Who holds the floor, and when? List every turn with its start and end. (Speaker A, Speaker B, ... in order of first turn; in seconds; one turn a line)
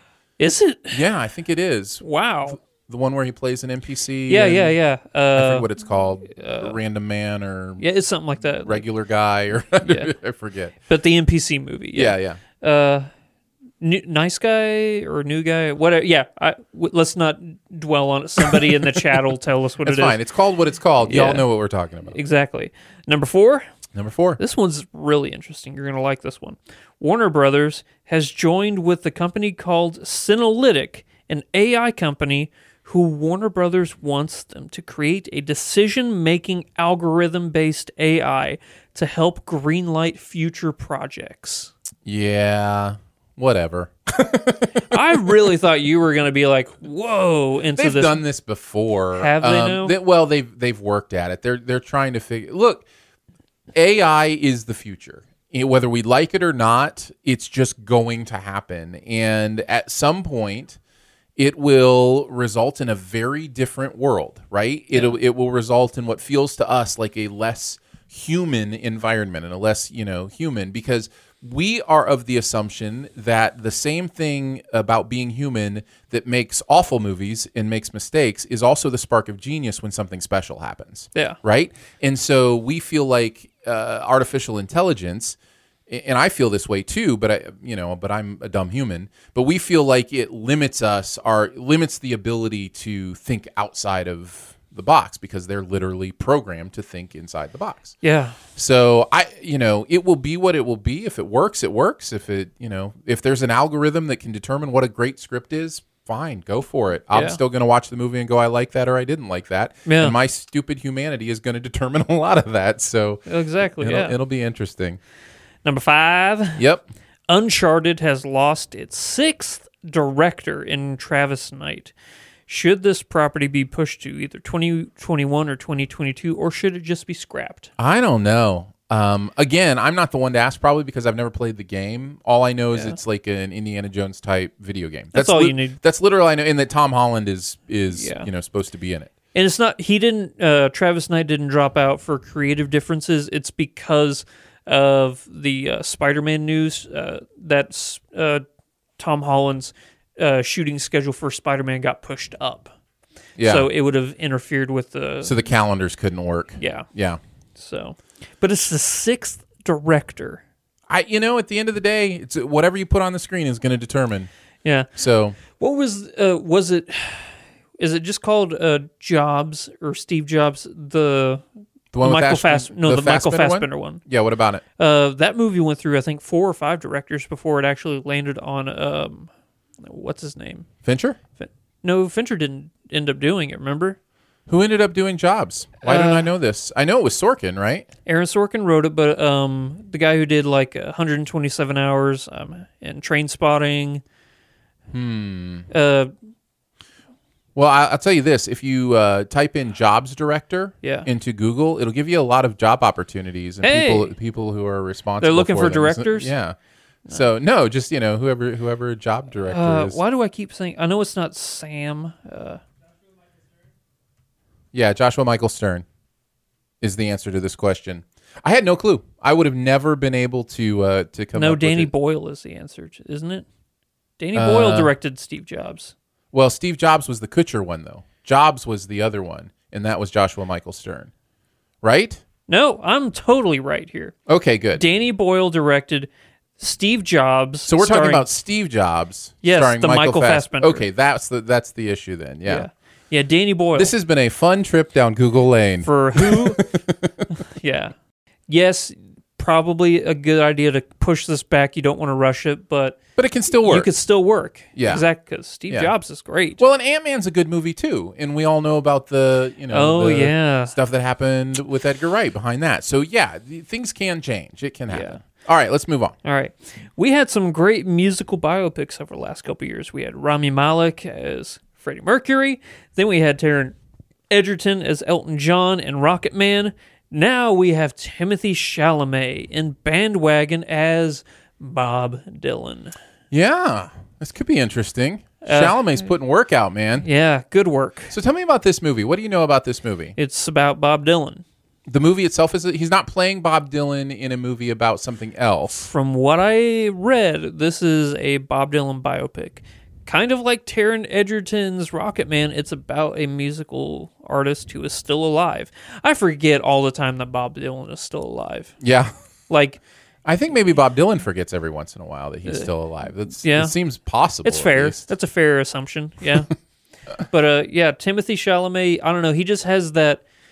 Speaker A: 0.4-1.0
Speaker B: 0.9-4.8
Speaker A: 2.0-2.6
Speaker A: 4.3-5.7
Speaker B: 5.3-7.8
Speaker A: 6.3-6.8
Speaker A: 7.8-8.8
Speaker B: 8.6-10.7
Speaker A: 9.8-10.1
Speaker A: 10.9-13.1
Speaker B: 11.9-12.4
Speaker A: 13.8-20.2
Speaker B: 18.4-18.8
Speaker B: 19.8-22.2
Speaker A: 21.0-21.5
Speaker A: 22.1-23.6
Speaker B: 23.9-24.4
Speaker A: 24.4-41.7
Speaker B: 42.0-45.0
Speaker A: 44.9-48.2
Speaker B: 47.8-52.9
Speaker A: 49.1-49.9
Speaker B: 53.7-60.8
Speaker B: 61.4-85.4
Speaker B: 85.9-98.0
Speaker A: 98.0-98.4
Speaker B: 98.5-113.2
Speaker A: 107.1-107.4
Speaker A: 109.8-110.2
Speaker A: 113.3-114.1
Speaker B: 113.8-115.0
Speaker A: 115.6-116.6
Speaker B: 116.6-116.8
Speaker A: 117.3-121.9
Speaker A: 122.5-127.7
Speaker B: 127.8-139.1
Speaker A: 135.1-135.8
Speaker A: 137.9-138.3
Speaker A: 139.3-148.4
Speaker A: 149.0-152.7
Speaker B: 153.4-153.7
Speaker A: 153.4-155.4
Speaker B: 155.2-157.2
Speaker A: 156.6-156.9
Speaker A: 157.6-160.4
Speaker B: 160.9-164.3
Speaker A: 164.6-164.9
Speaker B: 164.9-165.4
Speaker A: 165.6-171.4
Speaker B: 171.9-174.6
Speaker A: 172.0-174.0
Speaker A: 174.8-179.3
Speaker A: 179.8-180.7
Speaker B: 180.8-181.2
Speaker A: 181.4-184.0
Speaker B: 184.5-187.9
Speaker A: 185.8-186.3
Speaker A: 188.1-194.0
Speaker B: 194.9-195.7
Speaker A: 195.7-196.1
Speaker B: 197.5-210.0
Speaker A: 200.8-201.1
Speaker A: 203.6-204.1
Speaker A: 205.2-206.3
Speaker A: 209.5-212.6
Speaker B: 214.7-215.8
Speaker B: 216.8-221.9
Speaker A: 221.3-223.4
Speaker A: 224.2-225.9
Speaker B: 224.3-224.9
Speaker B: 226.3-231.1
Speaker B: 231.8-232.2
Speaker A: 232.5-234.1
Speaker B: 234.3-234.8
Speaker A: 234.7-238.2
Speaker B: 237.7-242.7
Speaker A: 239.4-240.8
Speaker A: 242.4-243.9
Speaker B: 243.7-247.1
Speaker A: 245.8-246.7
Speaker A: 247.6-247.9
Speaker A: 248.5-253.0
Speaker B: 253.2-253.9
Speaker A: 253.6-256.6
Speaker B: 254.8-255.0
Speaker B: 256.6-266.2
Speaker A: 259.7-260.7
Speaker A: 264.9-265.2
Speaker A: 266.2-273.7
Speaker A: 274.3-282.9
Speaker B: 283.3-287.1
Speaker A: 285.4-286.1
Speaker A: 287.0-288.1
Speaker B: 288.1-290.1
Speaker A: 290.2-291.4
Speaker B: 291.9-295.9
Speaker A: 295.8-308.8
Speaker B: 308.8-309.1
Speaker A: 309.5-309.8
Speaker B: 310.2-315.0
Speaker A: 313.4-313.7
Speaker A: 314.4-316.5
Speaker A: 317.3-320.2